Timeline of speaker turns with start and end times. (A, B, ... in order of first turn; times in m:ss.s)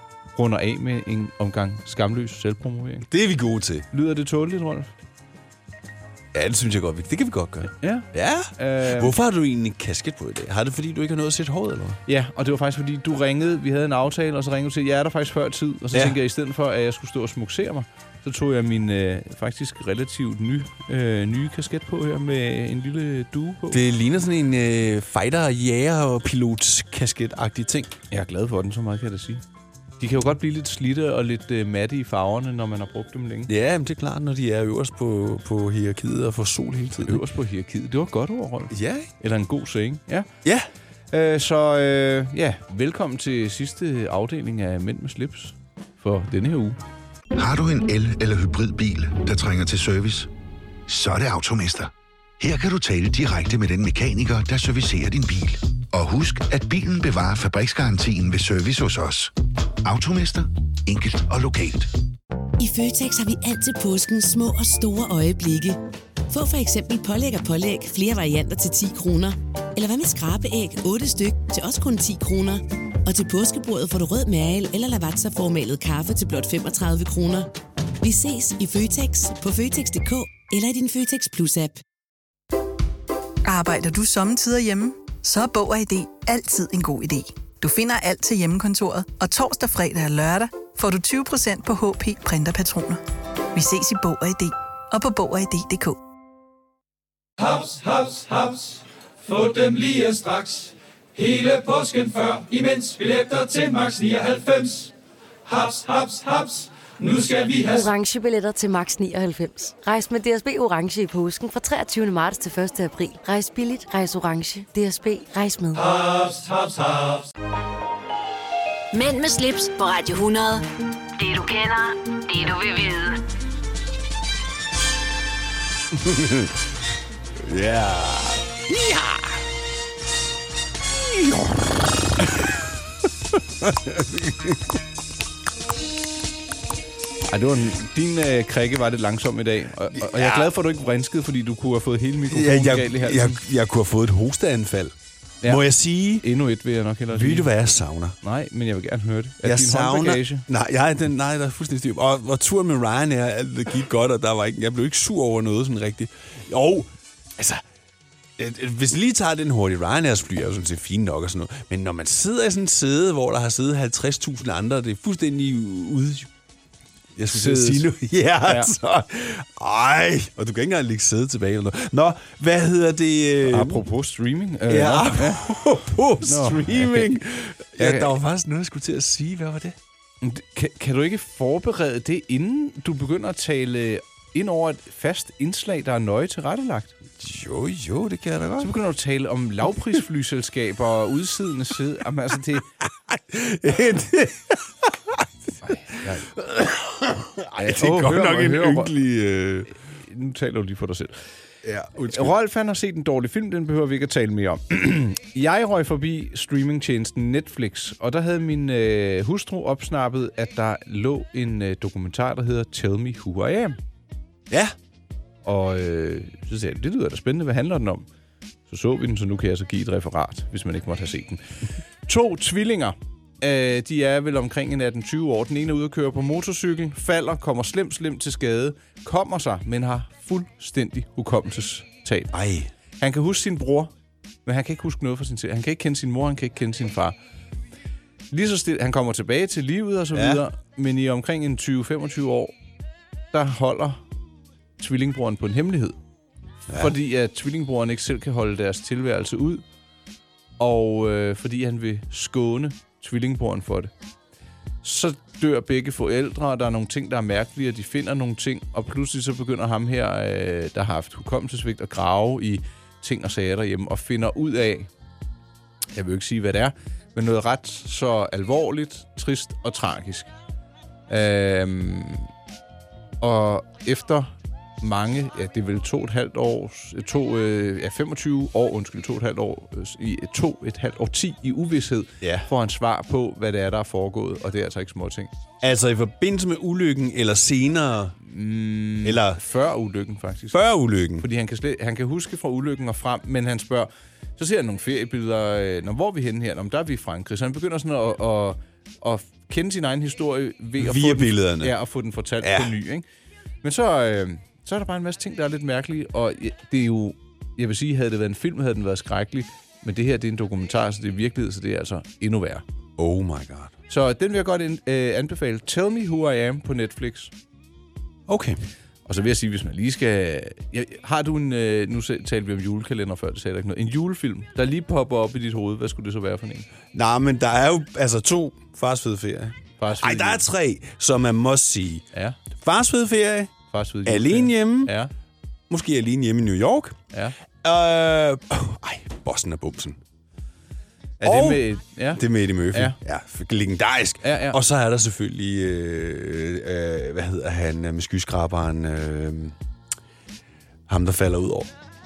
0:00.4-0:03.1 A
0:03.1-0:03.9 B
0:03.9-0:04.9 A
0:06.3-0:12.0 B
0:07.8-0:09.2 A
0:12.1-0:23.8 A
0:15.9-0:16.2 B
0:23.7-0:27.9 B
0:28.1-0:29.4 A
0:30.0-0:33.5 A
0:33.5-0:37.2 B
0:37.0-0:40.3 A
0:38.7-0:39.1 B
0:41.1-0:46.8 A
0:47.4-0:50.3 C
0:50.9-0:59.3 C
0:59.8-1:01.9 C
1:02.6-1:05.8 D
1:06.3-1:17.5 D
1:18.0-1:21.8 D
1:23.4-1:33.0 E
1:33.6-1:36.0 E
1:37.4-1:44.9 F
1:45.5-1:47.9 F
1:47.6-1:55.8 G
1:55.7-1:57.3 F
1:58.9-2:00.6 H
2:01.2-2:03.2 H
2:05.9-2:06.6 B
2:07.4-2:09.4 B
2:13.6-2:14.7 B
2:17.3-2:23.4 A
2:20.0-2:20.5 B
2:22.3-2:26.2 B
2:26.2-2:27.5 A
2:27.1-2:28.2 B
2:28.2-2:30.4 A
2:29.4-2:37.6 B
2:38.4-2:46.3 B
2:47.2-2:53.8 B
2:47.2-2:47.9 A
2:48.5-2:48.7 A
2:53.4-2:55.6 A
2:54.7-2:59.8 B
2:56.2-2:57.2 A
2:57.8-2:58.2 A
3:00.2-3:07.0 A
3:07.2-3:08.7 B
3:08.6-3:12.7 A
3:13.1-3:15.2 B
3:15.6-3:16.3 A
3:16.3-3:19.7 B
3:17.6-3:18.9 A
3:20.0-3:21.1 A
3:21.6-3:22.3 B
3:22.1-3:33.8 A
3:35.4-3:38.1 A
3:38.7-3:41.4 A
3:42.1-3:52.3 A
3:52.3-3:52.7 B
3:53.0-3:53.9 A
3:54.4-3:57.2 A
3:58.3-4:02.5 A
4:00.1-4:00.4 B
4:03.3-4:04.0 A
4:04.8-4:06.0 A
4:06.7-4:06.9 B
4:06.8-4:09.6 A
4:10.6-4:13.9 A
4:14.8-4:24.9 A
4:25.9-4:30.3 A
4:31.1-4:32.3 A
4:33.2-4:45.3 A
4:42.2-4:42.5 B
4:45.6-4:48.2 B
4:48.2-4:50.6 A
4:49.0-4:49.4 B
4:50.5-4:51.2 B
4:51.2-5:03.0 A
5:00.8-5:01.7 B
5:02.4-5:02.7 B
5:03.6-5:12.6 A
5:13.0-5:13.7 B
5:13.9-5:17.3 A
5:18.3-5:18.6 B
5:19.1-5:26.7 A
5:26.9-5:32.0 B
5:29.8-5:30.4 A
5:32.1-5:32.4 A
5:32.6-5:33.5 B
5:33.7-5:35.1 A
5:34.0-5:34.9 B
5:35.7-5:37.0 B
5:37.6-5:40.0 B
5:41.2-5:43.0 A
5:41.2-5:41.6 B
5:42.2-5:49.6 B
5:44.2-5:44.6 A
5:50.9-5:51.7 B